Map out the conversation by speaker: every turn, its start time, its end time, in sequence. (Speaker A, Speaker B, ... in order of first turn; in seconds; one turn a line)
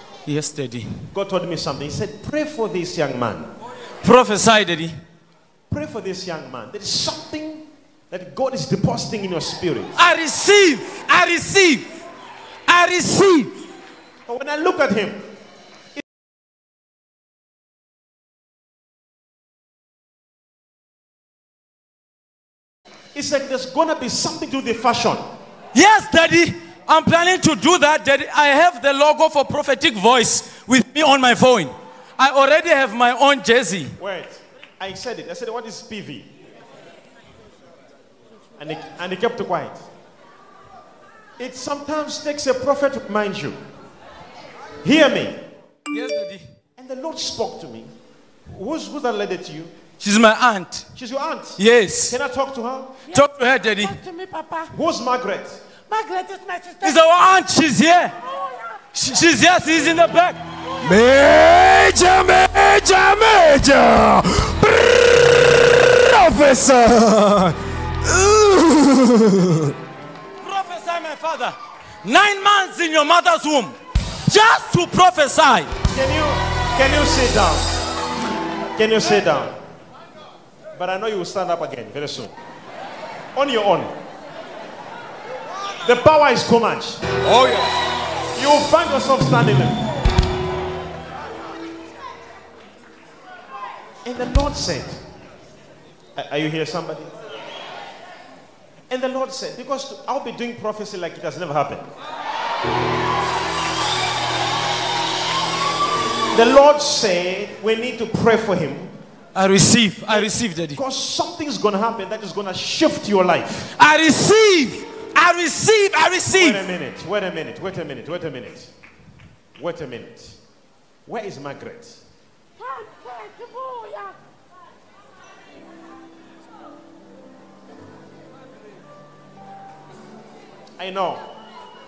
Speaker A: 0.2-1.1
Speaker B: 1.1-3.5
Speaker A: 4.0-5.0
Speaker B: 5.7-9.9
Speaker A: 10.0-11.9
Speaker A: 12.7-13.5
Speaker B: 14.3-15.2
Speaker B: 23.1-25.2
Speaker A: 25.7-33.9
Speaker B: 34.0-36.3
Speaker B: 38.6-39.8
Speaker B: 41.4-43.6
Speaker B: 44.8-45.4
Speaker A: 45.9-46.5
Speaker B: 46.8-47.9
Speaker B: 48.5-49.7
Speaker A: 50.0-50.9
Speaker B: 50.9-52.9
Speaker A: 51.6-52.1
Speaker A: 53.1-54.0
Speaker C: 53.8-54.6
Speaker B: 54.7-55.6
Speaker C: 55.9-57.0
Speaker A: 56.8-58.1
Speaker A: 58.9-60.4
Speaker D: 60.8-69.7
Speaker A: 70.4-73.7
Speaker A: 74.3-75.7
Speaker B: 75.9-77.7
Speaker B: 78.8-79.5
Speaker B: 80.7-82.3
Speaker B: 83.3-83.9
Speaker B: 85.8-87.0
Speaker A: 87.3-87.6
Speaker B: 88.3-89.8
Speaker B: 94.0-95.0
Speaker B: 96.2-97.1
Speaker B: 98.9-101.9
Speaker B: 106.3-108.9
Speaker A: 109.3-110.8
Speaker B: 110.1-113.7
Speaker A: 113.8-116.6
Speaker B: 116.3-118.7
Speaker B: 119.6-120.4
Speaker B: 121.0-122.0
Speaker B: 130.8-131.2